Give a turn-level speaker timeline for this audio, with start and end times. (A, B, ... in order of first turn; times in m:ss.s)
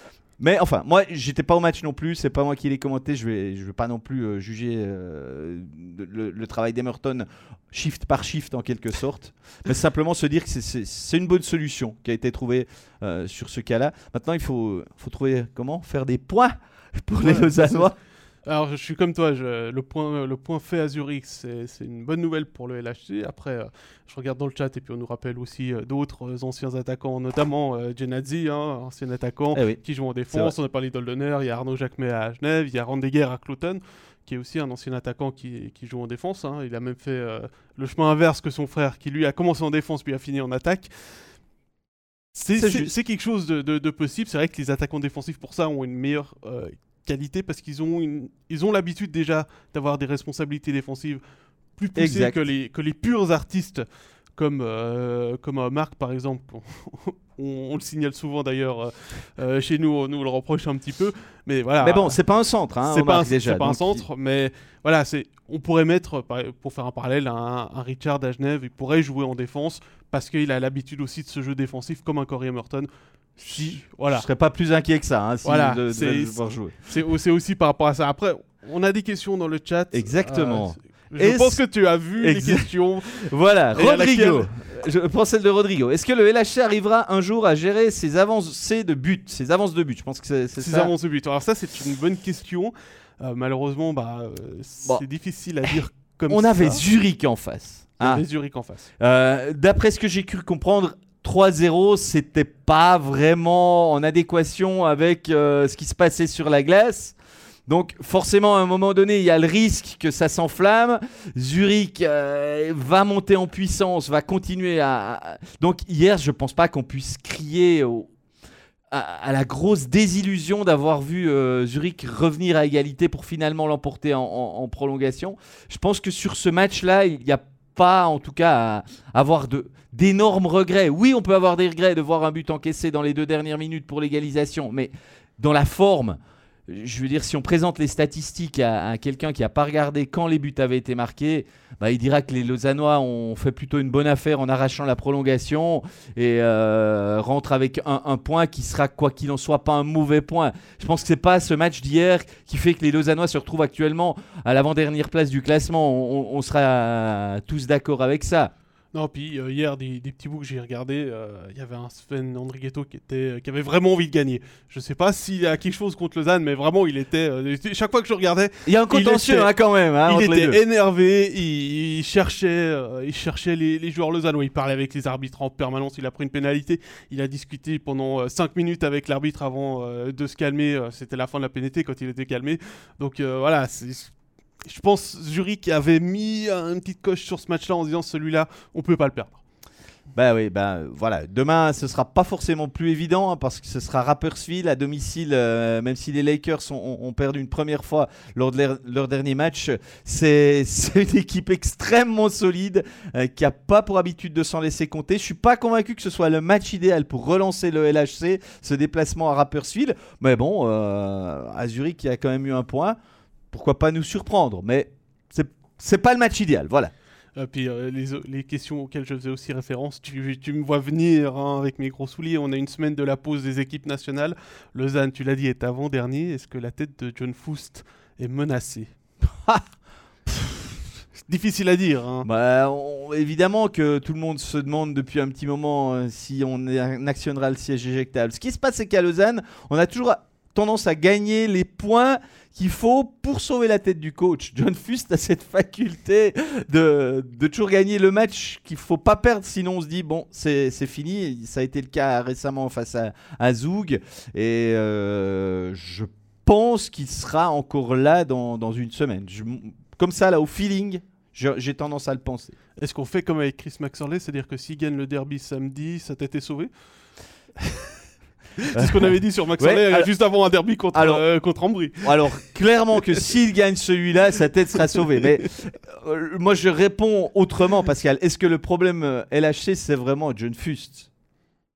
0:00.4-0:17.9 A
0:17.2-0:17.9 B
0:18.4-0:41.3 B
0:29.5-0:30.5 A
0:42.3-0:51.2 B
0:42.5-0:42.9 A
0:51.8-1:02.2 B
0:52.0-0:52.4 A
1:01.8-1:04.0 A
1:02.8-1:14.3 B
1:13.4-1:16.7 A
1:15.4-1:24.5 B
1:19.9-1:21.6 A
1:22.2-1:30.9 A
1:30.6-1:36.8 B
1:36.3-1:38.2 A
1:38.0-1:38.9 B
1:39.0-1:47.1 A
1:47.7-1:58.1 A
1:58.9-2:38.5 A
2:38.9-2:49.5 B
2:48.6-2:50.6 A
2:50.0-3:09.4 B
3:10.1-3:33.0 A
3:33.5-3:36.9 A
3:37.4-3:48.9 B
3:51.2-3:52.3 B
3:52.2-4:22.5 A
4:22.8-4:26.7 B
4:27.6-4:27.9 B
4:28.6-4:32.3 B
4:28.7-4:30.1 A
4:30.9-4:31.2 A
4:32.0-4:41.1 A